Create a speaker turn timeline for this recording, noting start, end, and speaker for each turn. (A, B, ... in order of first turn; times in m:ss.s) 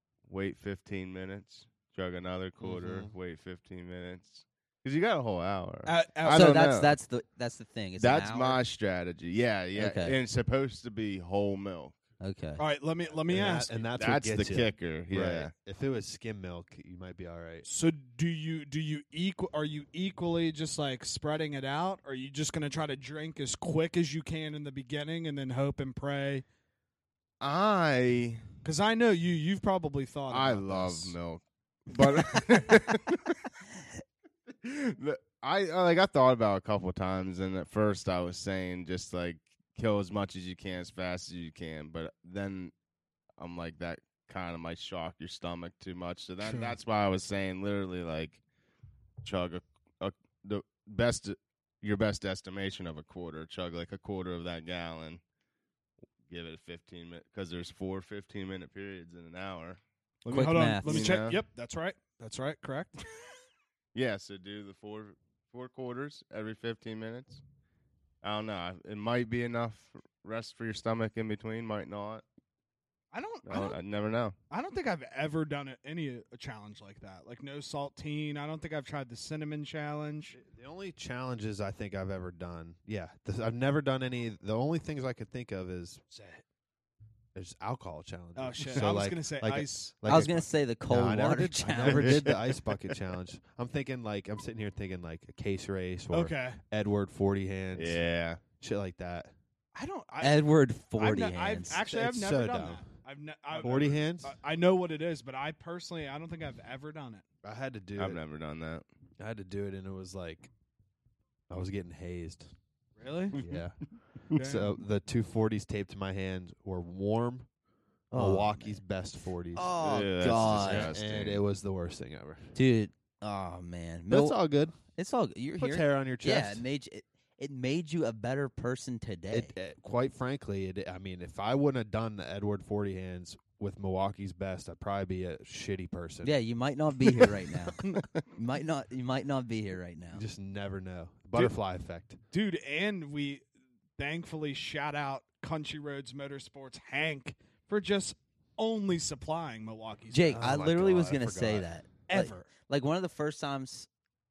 0:00.3-0:06.9 A
0:02.6-0:03.1 B
0:05.8-0:06.6 C
0:06.2-0:08.6 D
0:08.0-0:12.0 A
0:09.7-0:10.2 D
0:12.2-0:12.6 D
0:12.6-0:13.8 C
0:13.3-0:15.5 A
0:13.3-0:17.6 B
0:17.6-0:26.4 C
0:27.4-0:28.4 A
0:28.6-0:31.2 C
0:30.3-0:33.4 A
0:34.6-0:42.7 A
0:43.4-0:48.4 A
0:46.4-0:46.7 C
0:49.2-0:55.2 A
0:56.3-0:59.8 A
1:00.2-1:03.0 C
1:00.3-1:01.1 D
1:00.8-1:01.4 A
1:03.9-1:07.4 A
1:08.2-1:12.2 A
1:13.1-1:13.8 C
1:13.4-1:14.3 A
1:14.5-1:20.4 C
1:20.3-1:26.0 B
1:26.1-1:26.4 C
1:27.3-1:38.0 B
1:28.3-1:29.9 C
1:30.0-1:32.3 D
1:31.8-1:32.6 A
1:36.1-1:36.6 C
1:37.7-1:38.4 A
1:38.6-1:39.3 B
1:39.7-1:40.4 C
1:40.2-1:41.8 D
1:41.0-1:47.2 C
1:41.8-1:42.8 B
1:43.5-1:44.4 B
1:47.4-1:48.2 B
1:48.0-1:48.8 A
1:49.2-1:50.5 B
1:51.5-1:52.5 B
1:53.0-1:53.4 C
1:53.3-1:53.6 A
1:53.4-1:53.8 B
1:54.3-1:57.5 B
1:54.3-1:54.7 C
1:58.1-1:58.8 D
1:58.1-2:02.5 B
1:59.5-2:00.9 D
1:59.8-2:01.4 A
2:02.5-2:09.5 D
2:04.1-2:04.8 B
2:05.6-2:06.6 B
2:09.3-2:16.3 B
2:16.2-2:20.2 D
2:20.1-2:22.2 B
2:22.3-2:23.4 C
2:24.0-2:30.5 C
2:30.1-2:33.9 D
2:30.3-2:31.7 B
2:32.1-2:32.5 C